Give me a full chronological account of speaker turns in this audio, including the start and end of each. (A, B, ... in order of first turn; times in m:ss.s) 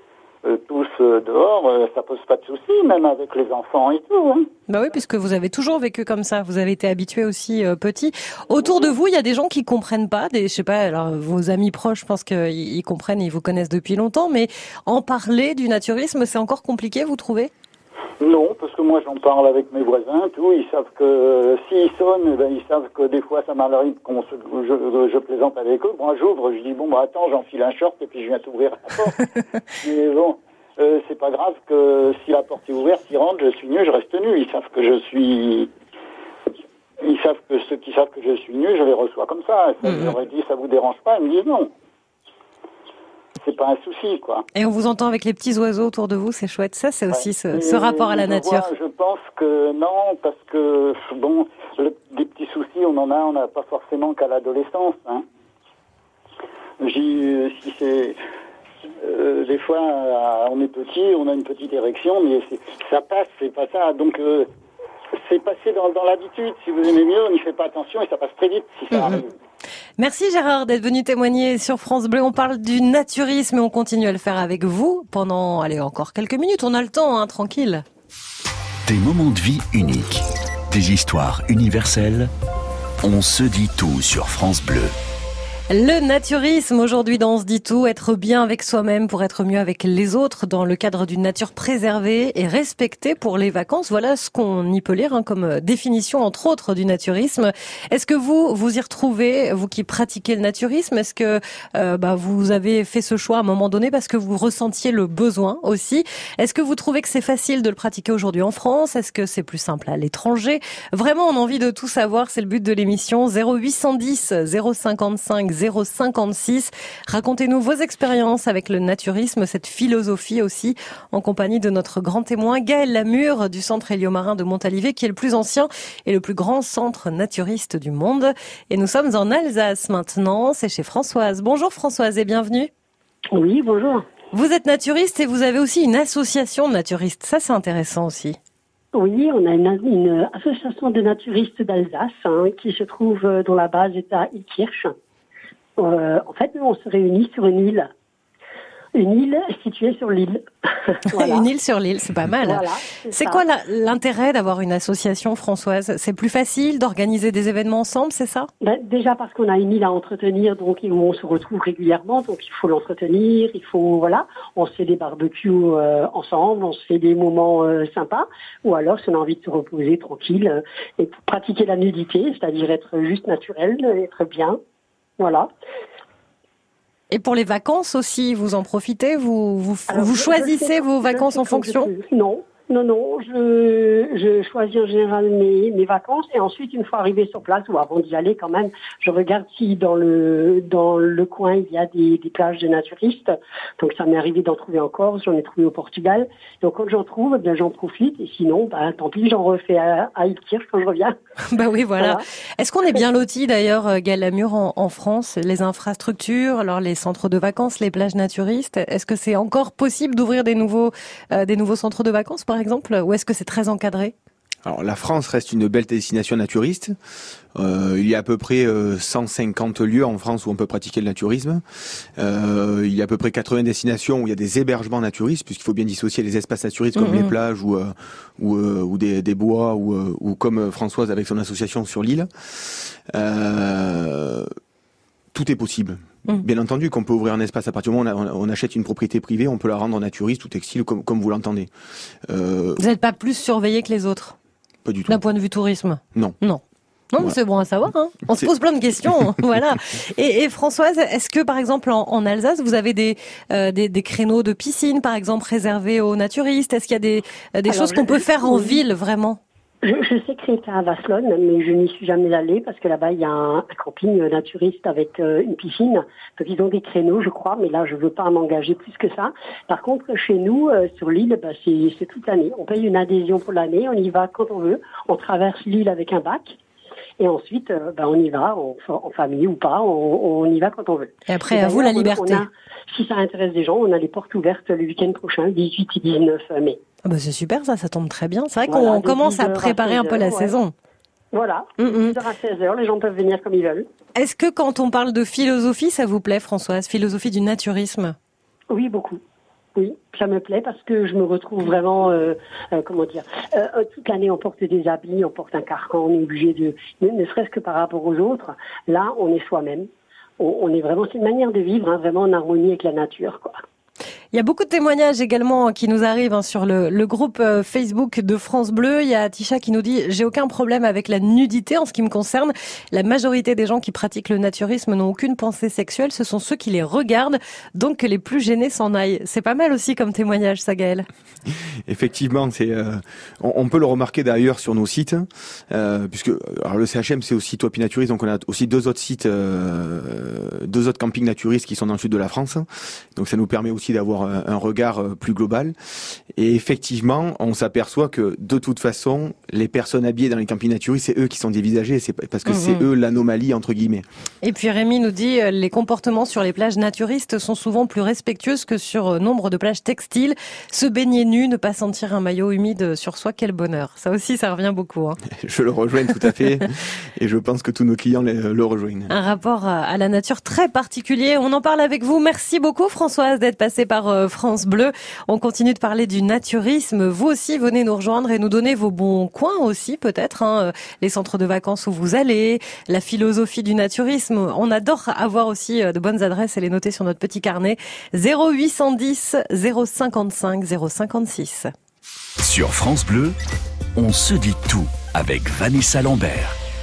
0:00.4-0:04.5 A
0:04.7-0:17.5 B
0:18.2-0:29.3 A
0:29.8-0:35.7 A
0:37.0-0:41.7 A
0:39.8-0:40.1 B
0:43.4-0:44.4 A
0:44.5-0:48.7 B
0:47.1-0:55.2 A
0:56.8-0:58.2 A
0:59.0-1:04.5 A
1:05.2-1:09.3 A
1:08.9-1:09.2 B
1:10.0-1:17.8 B
1:18.8-1:22.3 C
1:23.0-1:24.9 C
1:25.7-2:12.7 B
2:13.3-2:14.0 D
2:14.3-2:18.4 B
2:18.9-2:24.9 D
2:25.8-2:27.9 D
2:28.9-2:31.5 D
2:31.1-2:38.5 B
2:32.4-2:33.4 D
2:38.6-2:54.6 D
2:55.2-2:55.5 D
2:57.1-3:01.9 B
2:59.9-3:21.1 D
3:21.5-3:34.1 B
3:34.6-3:36.9 E
3:37.5-3:41.6 E
3:42.2-3:54.5 E
3:47.0-3:47.3 B
3:55.3-4:01.7 E
4:02.2-4:02.8 E
4:02.8-4:04.4 B
4:04.8-4:05.2 E
4:05.1-4:19.4 B
4:17.7-4:18.8 D
4:19.8-4:36.6 D
4:37.2-4:46.8 D
4:41.3-4:42.4 B
4:47.0-4:50.7 B
4:48.7-4:50.5 D
4:51.3-4:53.8 D
4:51.8-4:52.2 B
4:54.2-4:58.2 B
4:58.7-4:59.2 D
4:59.8-5:09.9 D
5:10.4-5:13.6 D
5:14.3-5:31.0 B
5:31.8-5:45.7 E
5:46.3-5:54.0 E
5:52.4-5:52.8 B
5:54.4-6:05.2 B
6:05.3-6:09.1 E
6:09.1-6:31.7 B
6:32.4-6:33.3 C
6:34.0-6:36.6 C